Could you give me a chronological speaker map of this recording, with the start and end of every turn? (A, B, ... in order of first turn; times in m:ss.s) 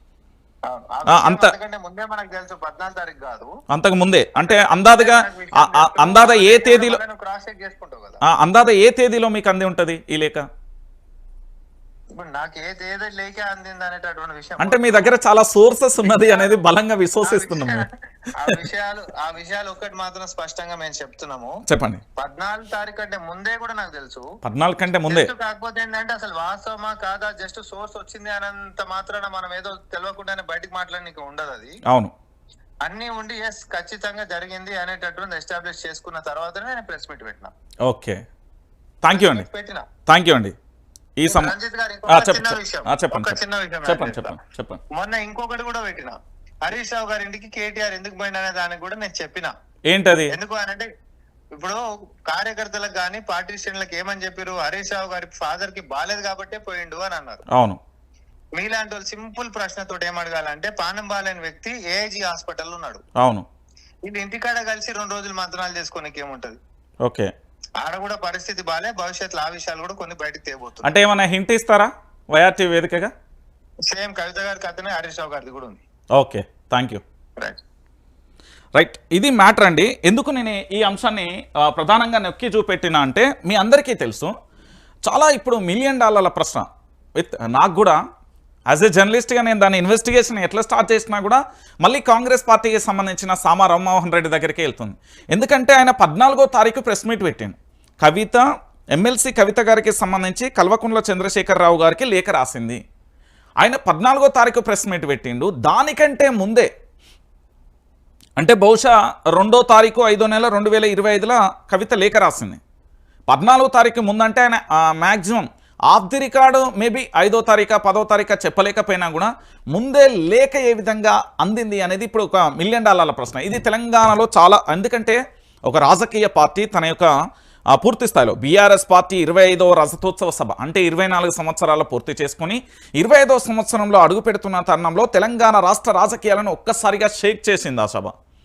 0:00.7-0:03.5 A
0:01.1-0:01.5 B
0:03.7-0:07.0 B
0:04.4-0:08.2 A
0:08.2-0:10.4 B
0:12.2-0:15.1 A
0:14.6-0:17.9 B
0:16.0-0:16.6 A
0:17.2-0:21.5 A
0:21.7-0:22.0 B
0:22.2-0:24.2 A
0:24.4-0:25.3 B
0:25.1-0:31.8 A
0:31.9-0:32.1 B
0:32.8-0:37.5 A
0:37.9-0:38.2 B
0:39.0-0:39.4 B
0:39.1-0:39.8 A
0:40.1-0:40.5 B
0:41.2-0:41.5 B
0:41.3-0:44.4 A
0:42.1-0:44.8 B
0:45.0-0:49.5 A
0:49.9-0:50.3 B
0:50.3-0:50.9 A
0:51.6-0:57.4 A
0:57.5-0:57.8 B
0:58.6-1:03.0 A
1:03.2-1:03.4 B
1:04.1-1:06.6 A
1:07.0-1:07.3 B
1:07.8-1:10.9 A
1:10.8-1:13.1 B
1:13.9-1:15.8 A
1:16.2-1:17.0 B
1:18.8-1:24.3 B
1:25.1-1:26.6 B
1:27.2-1:28.0 B
1:28.7-1:38.4 B
1:39.0-1:42.8 B
1:43.6-1:46.7 B
1:48.4-1:52.6 B
1:53.3-2:07.1 B
2:07.8-2:18.1 B